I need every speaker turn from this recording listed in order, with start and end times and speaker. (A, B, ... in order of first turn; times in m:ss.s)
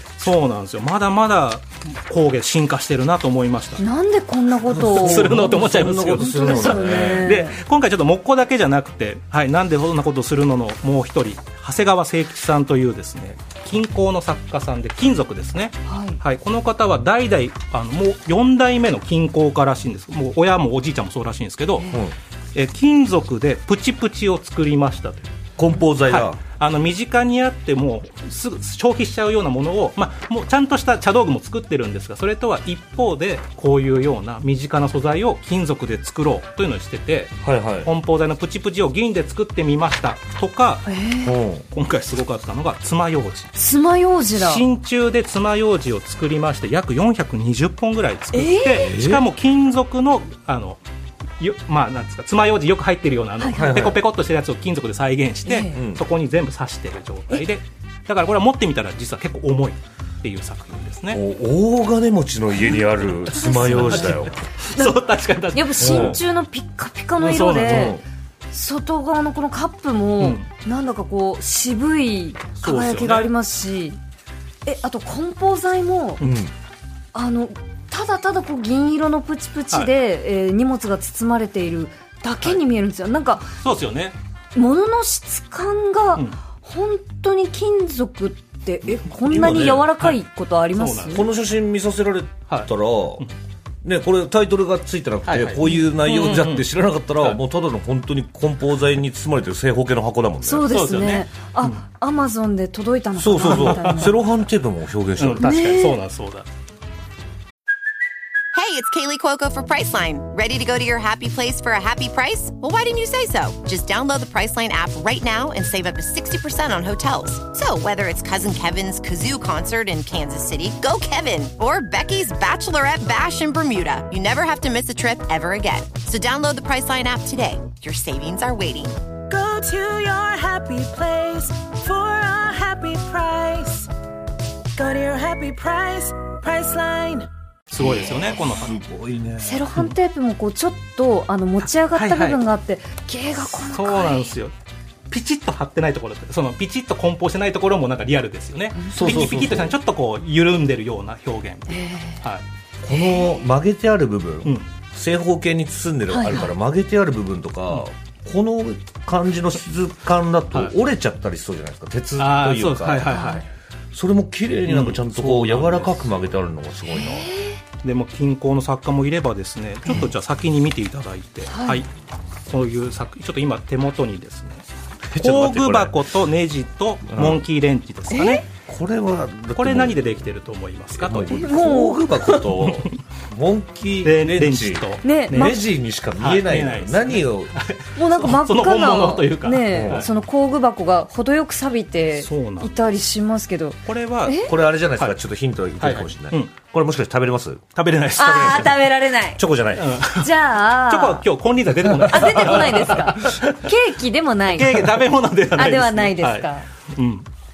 0:00.2-0:03.8 A
0:03.8-0:07.6 B
0:04.7-0:07.4 C
0:04.8-0:21.9 A
0:15.9-0:16.2 B
0:22.5-0:25.3 A
0:25.6-0:26.4 C
0:26.1-0:40.9 A
0:37.4-0:37.9 C
0:40.9-0:41.4 B
0:41.2-0:41.6 C
0:41.7-0:43.5 A
0:43.6-0:44.6 B
0:44.4-0:50.8 A
0:48.3-0:48.9 B
0:48.7-0:49.2 C
0:51.4-1:01.2 A
0:53.4-0:53.8 B
0:53.5-0:54.0 C
0:55.4-0:55.8 B
0:55.7-0:56.0 C
1:01.1-1:04.4 C
1:03.3-1:08.0 B
1:03.3-1:06.2 A
1:05.8-1:06.2 C
1:07.2-1:08.0 A
1:07.6-1:08.0 C
1:08.5-1:14.0 B
1:10.2-1:10.5 A
1:12.6-1:13.3 A
1:14.7-1:16.2 B
1:16.2-1:16.5 A
1:16.2-1:16.5 C
1:17.1-1:23.6 B
1:23.6-1:24.2 A
1:24.6-1:31.3 B
1:28.9-1:29.9 C
1:30.7-1:31.3 A
1:31.1-1:33.2 C
1:32.5-1:33.3 A
1:33.8-1:40.7 C
1:35.3-1:37.4 A
1:40.4-1:44.2 B
1:40.7-1:41.8 A
1:43.2-1:45.6 C
1:43.4-1:44.1 A
1:45.2-1:46.5 A
1:45.4-1:46.0 B
1:48.5-2:09.0 D
2:09.3-2:13.9 E
2:14.8-2:17.3 E
2:17.7-2:18.8 A
2:17.8-2:18.5 B
2:18.0-2:19.7 C
2:19.4-2:24.3 B
2:21.6-2:22.4 A
2:23.4-2:24.5 A
2:25.1-2:32.4 A
2:28.8-2:29.2 B
2:28.9-2:29.8 C
2:31.7-2:32.2 B
2:32.8-2:43.1 C
2:32.9-2:33.4 B
2:36.1-2:36.5 B
2:42.2-2:43.5 A
2:43.1-2:43.5 B
2:43.9-2:47.4 C
2:44.7-2:46.1 A
2:46.9-2:47.6 B
2:47.8-2:51.9 A
2:51.5-2:51.8 B
2:52.5-2:54.6 A
2:55.1-2:56.0 C
2:55.2-2:58.4 A
2:57.1-2:57.4 C
2:58.1-2:58.4 B
2:58.7-3:00.0 C
2:59.6-3:01.4 A
3:01.0-3:07.5 C
3:01.3-3:02.4 B
3:02.3-3:03.0 A
3:04.0-3:05.6 A
3:05.0-3:05.6 B
3:06.2-3:10.1 A
3:08.0-3:14.5 B
3:09.7-3:10.1 C
3:12.2-3:12.7 A
3:13.9-3:15.2 A
3:14.4-3:17.6 C
3:15.8-3:16.5 A
3:17.8-3:18.8 A
3:18.2-3:19.4 B
3:19.4-3:19.9 C
3:19.8-3:23.7 A
3:20.1-3:21.2 B
3:22.1-3:24.9 B
3:24.5-3:27.3 A
3:25.6-3:26.7 B